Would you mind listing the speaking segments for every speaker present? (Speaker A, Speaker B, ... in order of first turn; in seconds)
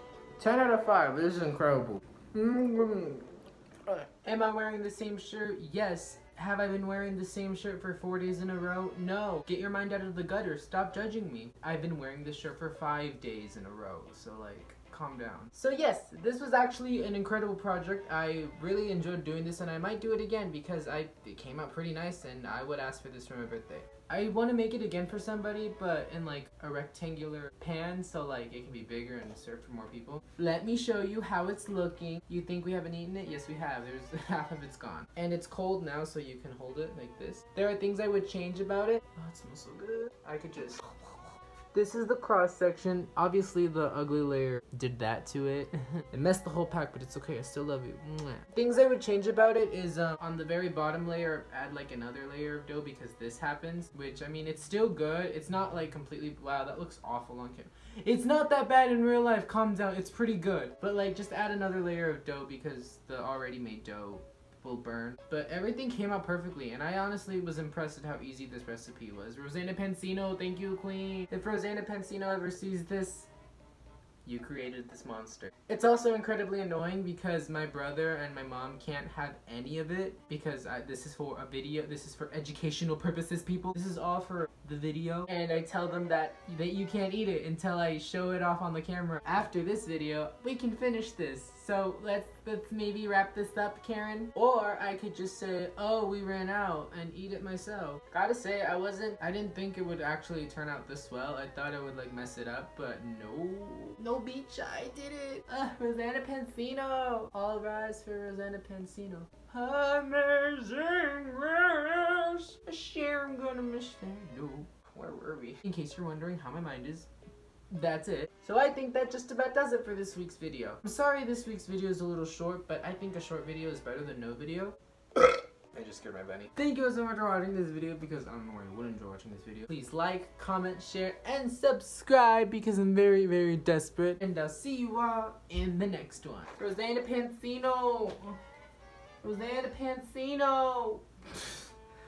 Speaker A: 0.4-41.2, 41.7-73.3, 74.2-117.1, 117.7-138.4, 139.2-141.7